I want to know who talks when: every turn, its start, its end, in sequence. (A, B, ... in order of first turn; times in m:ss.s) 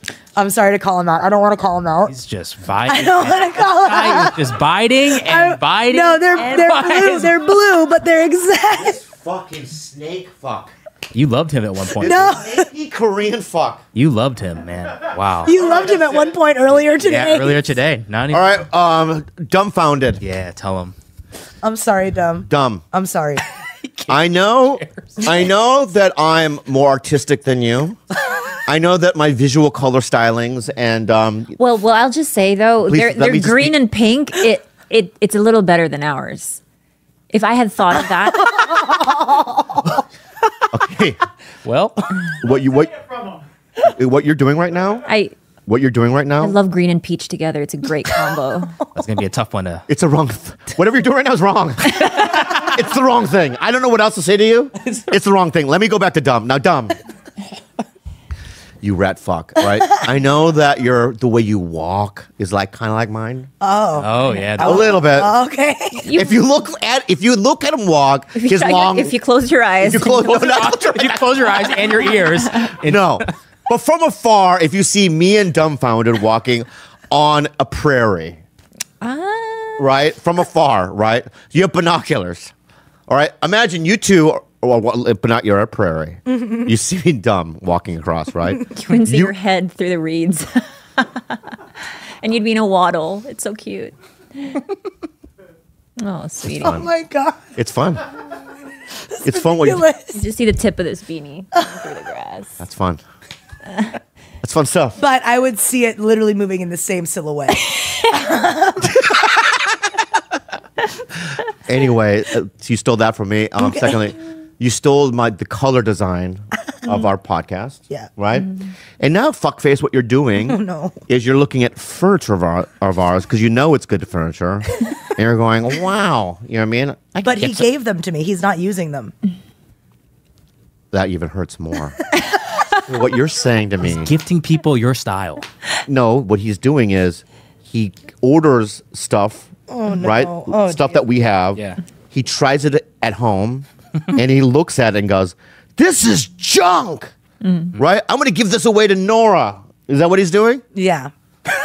0:00.4-0:02.2 A
0:02.1-0:07.4 B
0:02.9-0:04.4 A
0:05.1-0:09.0 A
0:08.8-0:10.7 C
0:11.1-0:12.4 B
0:12.0-0:12.7 A
0:12.0-0:13.8 C
0:13.9-0:15.6 B
0:15.4-0:17.8 A
0:17.0-0:18.5 B
0:18.3-0:20.2 C
0:20.2-0:20.9 B
0:21.6-0:23.4 A
0:22.5-0:22.8 C
0:23.8-0:25.3 B
0:24.1-0:28.0 C
0:28.7-0:31.6 C
0:31.6-0:36.6 D
0:32.9-0:33.8 C
0:37.3-0:39.0 D
0:40.7-0:41.2 C
0:41.6-0:42.0 B
0:42.3-0:43.0 C
0:43.8-0:45.1 C
0:45.1-0:45.3 D
0:45.7-0:46.6 C
0:46.4-0:48.8 D
0:48.9-0:49.8 B
0:49.9-0:57.0 C
0:58.8-1:03.5 C
1:03.6-1:06.2 A
1:04.0-1:04.8 B
1:04.6-1:05.3 C
1:06.0-1:06.4 D
1:06.1-1:09.1 C
1:08.4-1:10.3 D
1:09.8-1:11.2 C
1:10.2-1:13.3 B
1:12.8-1:18.4 C
1:19.0-1:19.9 D
1:19.8-1:22.5 C
1:23.1-1:29.3 C
1:28.7-1:31.4 D
1:32.2-1:34.6 D
1:36.0-1:36.8 D
1:36.6-1:37.4 A
1:37.6-1:38.0 C
1:39.1-1:40.2 A
1:39.2-1:39.9 C
1:40.1-1:42.6 D
1:42.6-1:43.0 C
1:44.4-1:45.0 C
1:45.0-1:48.9 A
1:51.7-2:07.6 C
2:00.5-2:01.0 A
2:07.2-2:09.1 A
2:10.9-2:12.0 C
2:12.8-2:14.1 C
2:13.8-2:15.4 B
2:15.8-2:27.1 C
2:19.7-2:21.0 A
2:21.6-2:21.8 B
2:27.8-2:30.6 C
2:30.7-2:31.1 A